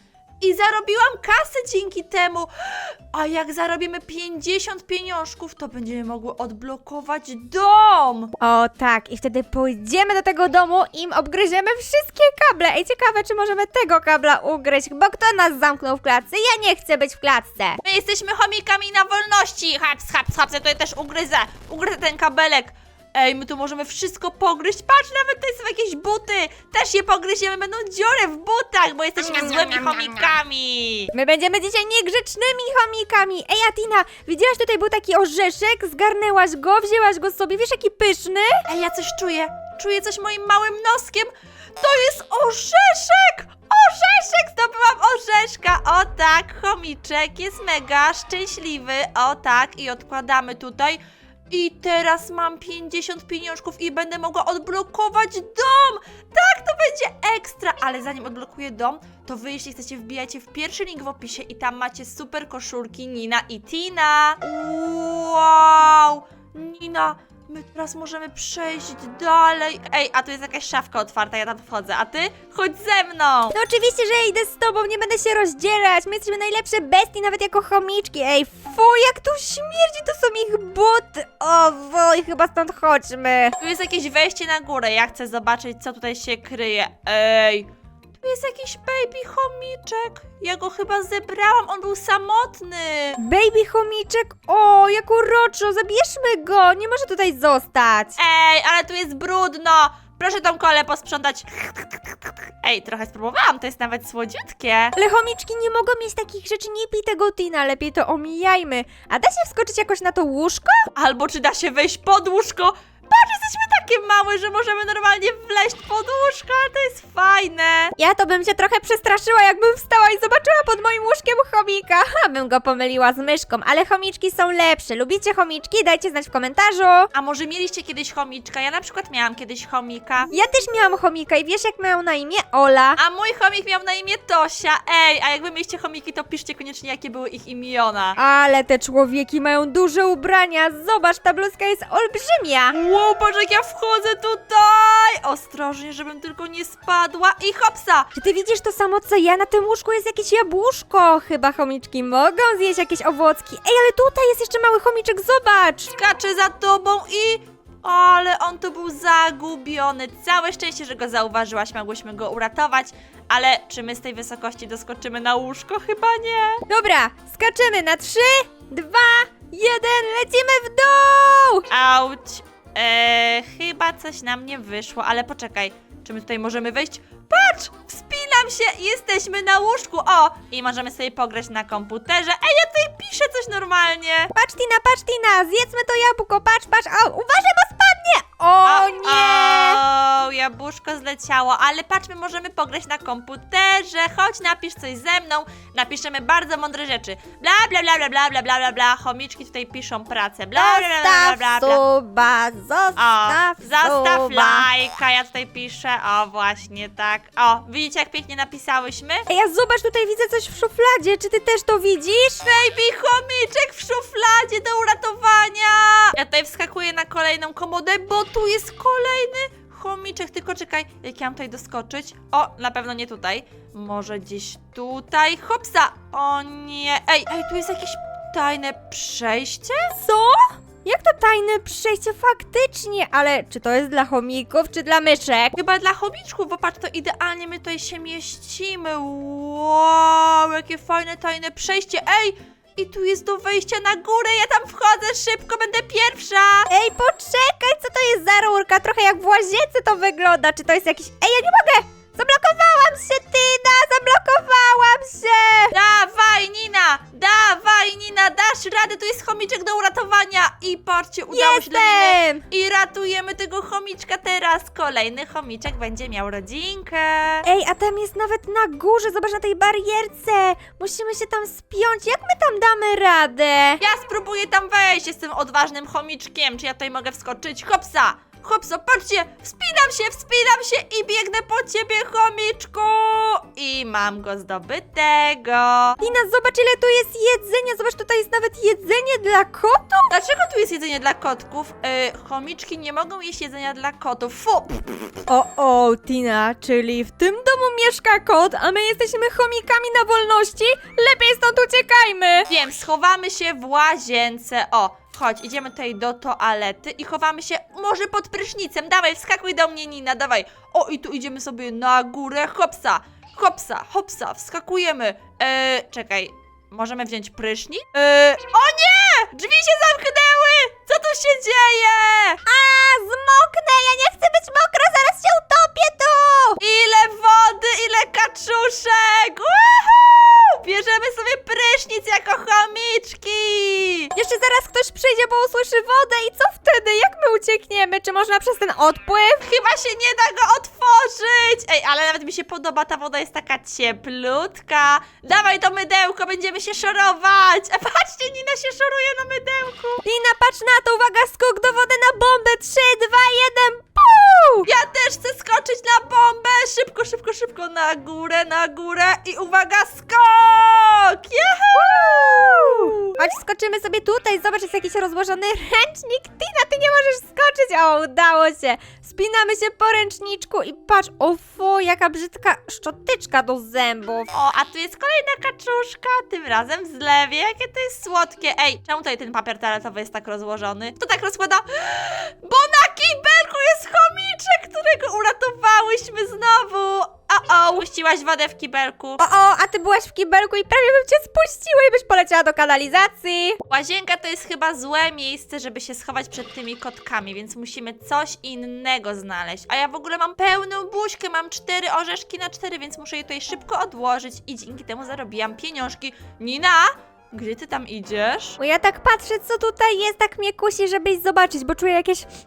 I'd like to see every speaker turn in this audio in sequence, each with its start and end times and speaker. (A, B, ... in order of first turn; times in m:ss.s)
0:00.4-0:08.3 A
0:08.4-0:17.8 B
0:17.8-0:31.1 A
0:29.2-0:30.4 B
0:31.1-0:38.7 B
0:38.7-1:13.6 A
1:13.5-1:23.6 B
1:23.6-1:33.2 A
1:33.2-1:38.2 B
1:38.2-1:45.0 A
1:45.0-1:50.9 B
1:51.0-1:57.9 A
1:58.0-2:07.1 B
2:07.1-2:10.3 A
2:10.3-2:13.0 B
2:13.0-2:18.2 A
2:18.2-2:22.8 B
2:22.7-2:28.1 A
2:28.2-2:35.9 B
2:35.9-2:46.6 A
2:46.7-2:51.6 B
2:51.7-3:04.3 A
3:04.3-3:09.8 B
3:08.6-3:21.8 A
3:20.6-3:24.7 B
3:23.0-3:29.3 A
3:29.3-3:32.4 B
3:32.4-3:50.0 A
3:50.0-3:55.6 B
3:55.6-4:06.7 A
4:06.7-4:15.8 B
4:15.7-4:27.5 A
4:21.3-4:22.4 B
4:27.5-4:33.8 B
4:33.8-4:46.0 A
4:46.0-4:50.1 B
4:50.1-4:55.2 A
4:55.3-5:02.5 B
5:02.5-5:22.4 A
5:22.5-5:26.6 B
5:26.6-5:34.1 A
5:34.2-5:39.4 B
5:39.4-5:50.0 A
5:50.0-5:54.7 B
5:54.6-6:03.1 A
6:01.8-6:14.3 B
6:14.3-6:29.2 A
6:29.2-6:33.6 B
6:33.6-6:48.6 A
6:48.6-6:52.3 B